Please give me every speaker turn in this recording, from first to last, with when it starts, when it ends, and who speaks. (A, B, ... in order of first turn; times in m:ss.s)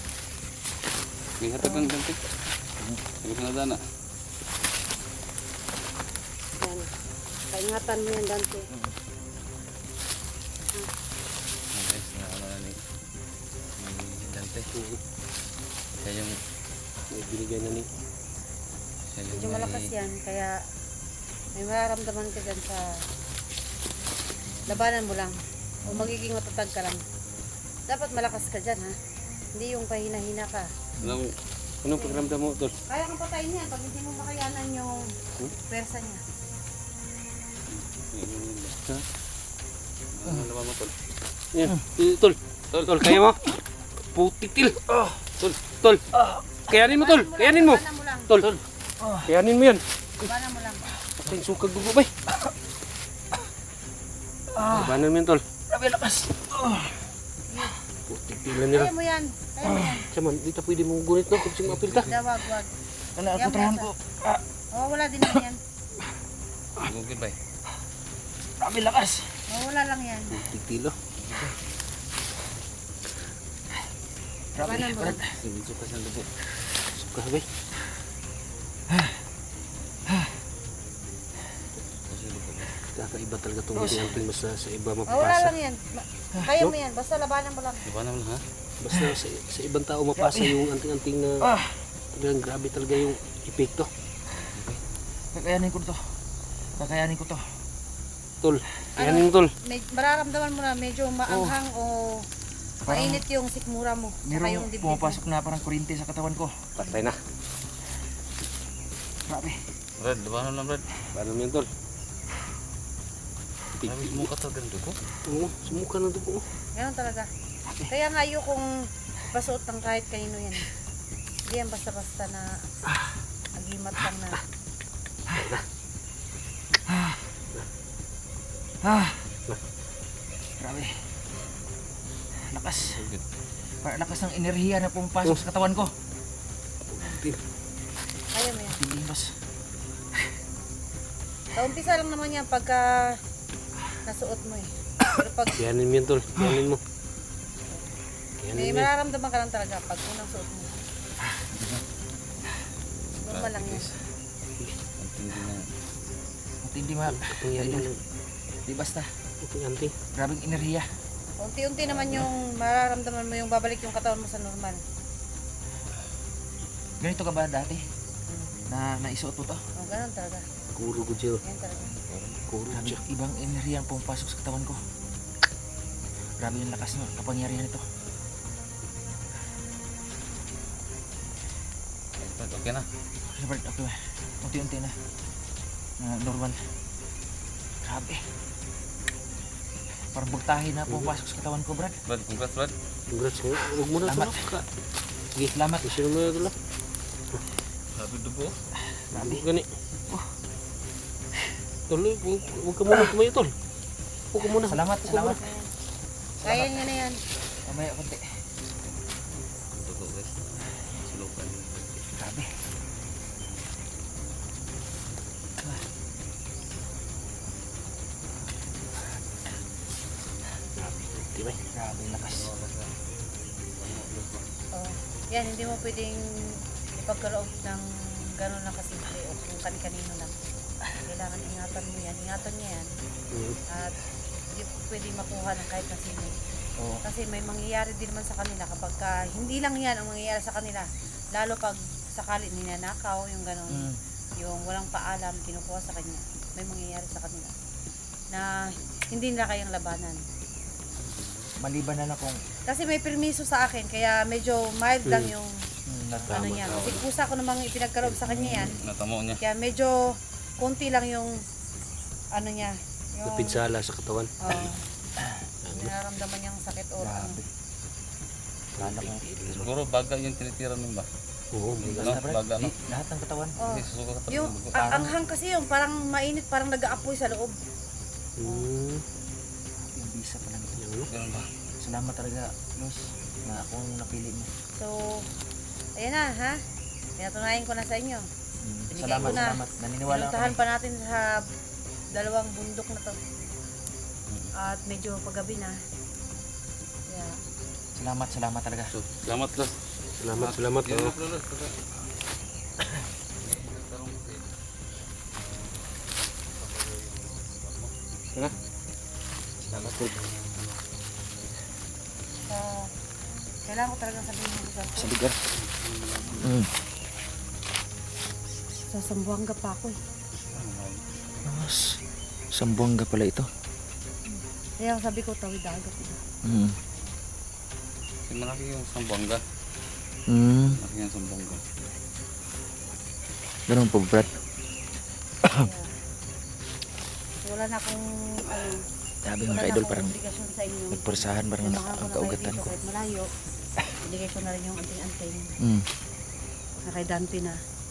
0:01.4-0:02.2 A
0:01.6-0:01.9 B
0:03.2-0:03.8 A
0:06.6-0:06.9 B
0:07.5-0:08.7 B
0:11.7-0:12.8 A
0:13.8-0:14.7 A
0:14.7-0:15.0 C
0:16.0-0:16.4 A
0:17.1-0:17.9 C
0:19.1-0:19.9 A
0:19.3-0:20.6 B
0:21.5-0:23.0 B
0:24.7-0:27.0 B
0:25.8-0:26.1 D
0:27.9-0:29.0 B
0:29.5-0:30.7 B
0:31.0-0:31.3 A
0:31.8-0:32.8 C
0:31.9-0:35.1 B
0:35.7-0:36.2 B
0:37.7-0:38.8 A
0:40.1-0:41.0 A
0:41.5-0:43.5 C
0:42.7-0:43.1 A
0:44.1-0:46.0 C
0:46.2-0:46.4 D
0:46.7-0:48.6 C
0:46.7-0:48.4 B
0:49.0-0:49.3 D
0:49.2-0:50.3 C
0:50.2-0:50.8 B
0:51.2-0:52.1 C
0:54.5-0:55.0 D
0:54.6-0:55.4 C
0:55.7-0:57.0 D
0:57.5-0:57.8 B
0:58.1-0:58.9 C
0:58.7-1:00.0 B
0:59.6-0:59.9 D
1:00.1-1:02.1 C
1:01.6-1:02.1 A
1:02.0-1:02.7 B
1:03.1-1:04.4 D
1:03.3-1:03.9 B
1:04.7-1:05.6 B
1:06.8-1:07.4 A
1:08.6-1:09.4 D
1:09.5-1:10.4 B
1:10.3-1:10.9 C
1:11.3-1:11.6 D
1:14.5-1:15.4 D
1:14.6-1:15.2 B
1:15.0-1:16.3 A
1:16.9-1:17.5 C
1:18.9-1:19.2 D
1:22.1-1:22.8 A
1:22.9-1:25.5 C
1:23.7-1:24.2 D
1:25.1-1:27.8 B
1:27.8-1:28.4 A
1:28.8-1:31.5 C
1:28.9-1:29.2 D
1:30.2-1:30.7 D
1:31.4-1:31.8 D
1:32.1-1:33.9 C
1:34.4-1:34.8 A
1:35.3-1:36.0 D
1:36.8-1:37.4 D
1:38.4-1:39.5 C
1:39.0-1:42.2 B
1:41.3-1:41.6 D
1:42.8-1:43.2 D
1:42.9-1:45.2 B
1:44.2-1:46.6 D
1:46.8-1:47.2 C
1:49.3-1:49.6 D
1:50.0-1:50.8 A
1:51.1-1:51.7 C
1:53.8-1:54.3 C
1:53.8-1:55.0 A
1:55.2-1:56.4 C
1:56.8-1:57.3 B
1:57.9-1:58.7 B
1:59.3-2:00.7 B
2:01.5-2:02.6 B
2:03.6-2:04.4 B
2:05.3-2:05.6 C
2:06.9-2:07.2 D
2:08.8-2:09.2 D
2:10.6-2:11.0 D
2:12.3-2:13.1 D
2:12.9-2:13.2 A
2:13.8-2:15.9 D
2:16.9-2:17.4 C
2:18.3-2:18.8 B
2:18.6-2:19.3 D
2:21.5-2:23.2 B
2:24.0-2:25.6 B
2:25.5-2:26.8 C
2:28.4-2:28.9 C
2:28.5-2:30.7 B
2:31.2-2:31.8 D
2:33.2-2:33.9 B
2:33.2-2:33.9 A
2:35.0-2:35.7 A
2:36.6-2:37.9 D
2:37.1-2:38.0 C
2:38.6-2:39.1 D
2:39.4-2:39.9 C
2:40.1-2:40.9 D
2:41.4-2:44.8 B
2:47.0-2:47.8 D
2:48.3-2:48.5 B
2:48.7-2:49.6 D
2:49.8-2:50.4 B
2:50.7-2:51.4 C
2:51.4-2:51.9 B
2:52.4-2:53.0 C
2:52.7-2:54.8 D
2:56.4-2:57.8 D
3:02.2-3:02.8 A
3:03.2-3:05.0 D
3:06.0-3:06.6 D
3:07.8-3:08.2 D
3:10.1-3:12.0 D
3:10.9-3:11.1 C
3:12.0-3:12.7 A
3:13.1-3:14.6 C
3:14.0-3:14.5 D
3:15.4-3:16.1 D
3:15.8-3:16.5 C
3:18.0-3:18.5 A
3:18.8-3:19.4 D
3:19.1-3:19.7 C
3:21.9-3:23.5 C
3:24.3-3:24.8 C
3:24.6-3:25.4 D
3:25.0-3:25.6 B
3:26.4-3:26.8 D
3:26.4-3:27.2 B
3:27.6-3:28.2 D
3:29.7-3:30.5 A
3:31.0-3:32.0 A
3:32.2-3:32.5 D
3:35.6-3:35.8 D
3:40.8-3:41.6 C
3:41.7-3:42.5 D
3:42.1-3:42.9 A
3:43.8-3:44.5 A
3:44.7-3:46.2 B
3:47.0-3:47.8 B
3:48.4-3:50.3 B
3:51.0-3:52.9 B
3:53.3-3:53.6 C
3:53.7-3:53.9 B
3:54.5-3:56.4 B
3:56.8-3:57.0 D
3:57.0-4:07.5 B
4:03.7-4:04.0 D
4:08.3-4:10.2 B
4:11.0-4:11.5 A
4:11.6-4:12.4 D
4:12.7-4:15.6 B
4:15.0-4:15.3 C
4:15.8-4:16.9 D
4:16.3-4:17.0 C
4:16.3-4:18.8 B
4:18.2-4:18.8 D
4:18.8-4:19.4 A
4:19.4-4:20.0 B
4:20.6-4:21.3 B
4:22.3-4:23.6 B
4:23.2-4:24.3 C
4:24.4-4:24.8 B
4:25.6-4:27.4 B
4:27.0-4:27.4 D
4:28.8-4:29.2 D
4:28.8-4:29.7 C
4:29.5-4:31.1 A
4:31.5-4:32.2 C
4:31.8-4:32.7 A
4:31.8-4:33.6 D
4:33.6-4:37.6 B
4:33.6-4:35.0 A
4:34.8-4:35.1 D
4:38.4-4:39.0 C
4:39.8-4:40.8 D
4:40.8-4:41.1 C
4:41.1-4:41.5 A
4:41.8-4:44.5 D
4:44.7-4:45.2 B
4:46.0-4:46.6 B
4:47.2-4:48.2 B
4:48.6-4:50.6 D
4:48.9-4:51.4 B
4:52.1-4:53.2 B
4:54.6-4:55.8 B
4:57.1-4:57.4 B
4:57.9-4:58.9 D
4:58.9-4:59.8 A
5:00.2-5:01.1 C
5:00.3-5:01.9 A
5:03.4-5:04.5 A
5:06.0-5:08.0 A
5:09.6-5:10.0 D
5:09.7-5:10.2 C
5:09.9-5:10.8 A
5:12.5-5:12.9 B
5:13.6-5:15.1 B
5:15.0-5:15.4 D
5:15.5-5:16.6 A
5:16.4-5:16.7 D
5:18.9-5:20.0 B
5:20.5-5:21.6 A
5:21.4-5:22.0 D
5:22.5-5:23.5 D
5:24.3-5:26.2 B
5:26.4-5:26.8 D
5:28.3-5:29.4 A
5:30.3-5:30.8 D
5:30.8-5:31.6 A
5:33.7-5:34.4 D
5:35.6-5:35.9 B
5:37.4-5:38.8 B
5:39.2-5:40.1 D
5:39.4-5:43.3 B
5:40.9-5:42.7 D
5:44.0-5:45.5 B
5:45.6-5:45.9 D
5:46.8-5:47.6 B